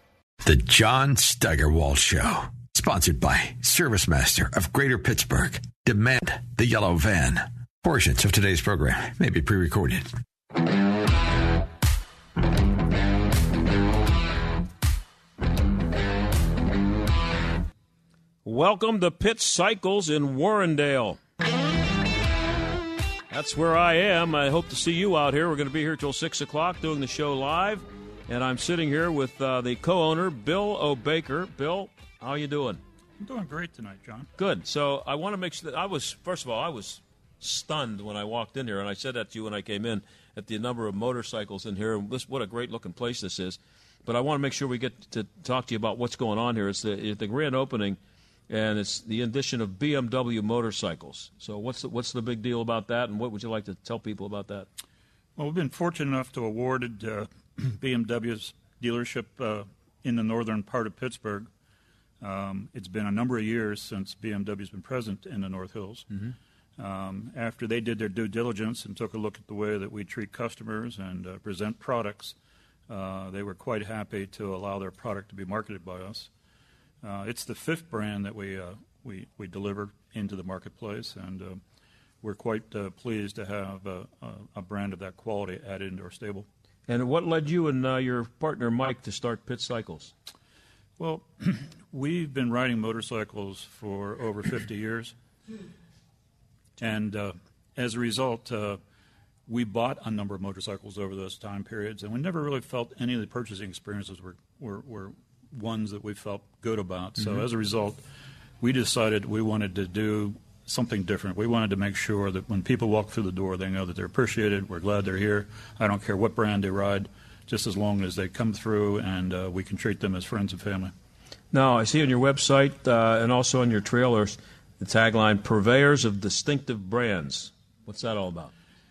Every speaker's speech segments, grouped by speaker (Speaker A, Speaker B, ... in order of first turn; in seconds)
Speaker A: 0.4-10.1
Speaker B: 18.4-21.2, 23.3-32.8, 34.4-54.7, 86.9-90.1, 121.5-128.5
Speaker C: 33.2-34.3, 55.4-61.5, 62.2-66.1, 66.8-72.3, 72.9-76.3, 77.0-81.6, 82.2-86.5, 91.0-95.1, 96.8-98.8, 99.5-108.0, 108.6-120.9